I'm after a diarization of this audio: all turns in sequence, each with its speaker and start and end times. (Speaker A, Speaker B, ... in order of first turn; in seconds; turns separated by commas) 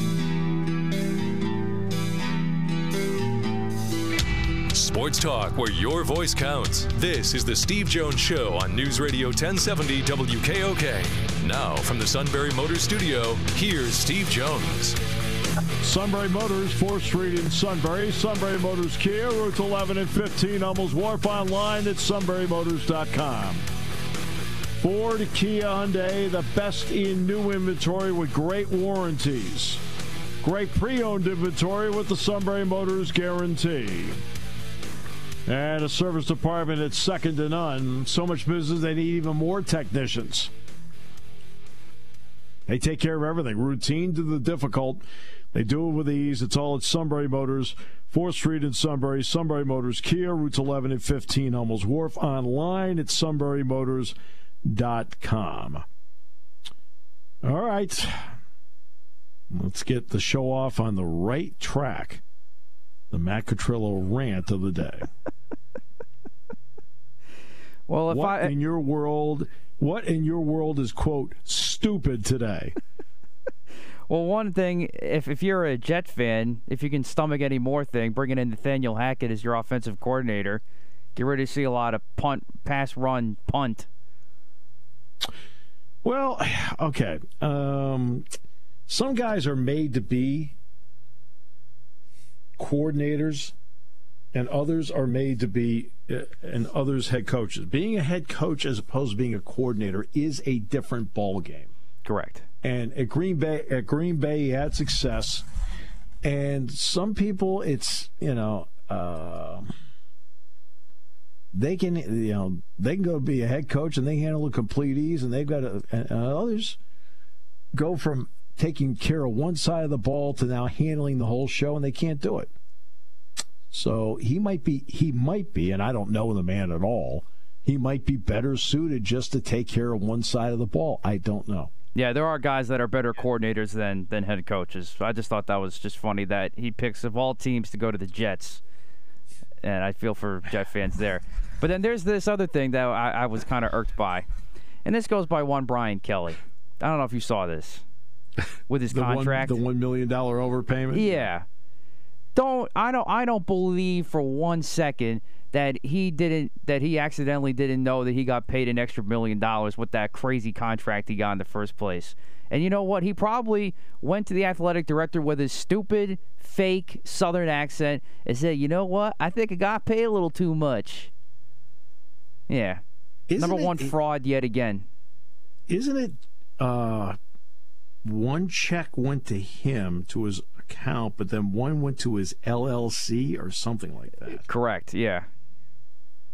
Speaker A: 4.7-15.0, Speaker B: 15.8-23.6, Speaker B: 24.8-29.8, Speaker B: 30.4-34.2, Speaker B: 35.5-40.5, Speaker B: 42.7-55.9, Speaker B: 57.4-58.4, Speaker B: 59.5-62.2, Speaker B: 63.1-65.1, Speaker C: 67.9-68.5, Speaker B: 68.1-72.8, Speaker C: 74.1-80.6, Speaker C: 81.2-83.9, Speaker B: 86.0-88.2, Speaker B: 88.9-90.5, Speaker B: 92.6-93.5, Speaker B: 94.3-101.7, Speaker C: 102.0-102.4, Speaker B: 102.6-105.5, Speaker B: 106.2-109.7, Speaker B: 111.5-116.8, Speaker B: 117.7-122.5, Speaker B: 123.7-131.7, Speaker C: 131.9-138.6, Speaker C: 139.6-144.3, Speaker C: 144.8-147.8, Speaker C: 148.7-149.6, Speaker B: 148.9-151.3, Speaker C: 150.9-151.5, Speaker C: 152.3-171.1, Speaker C: 172.5-172.8, Speaker B: 173.3-173.9, Speaker C: 173.4-174.8, Speaker B: 175.7-177.2, Speaker B: 178.0-184.4, Speaker C: 184.3-185.3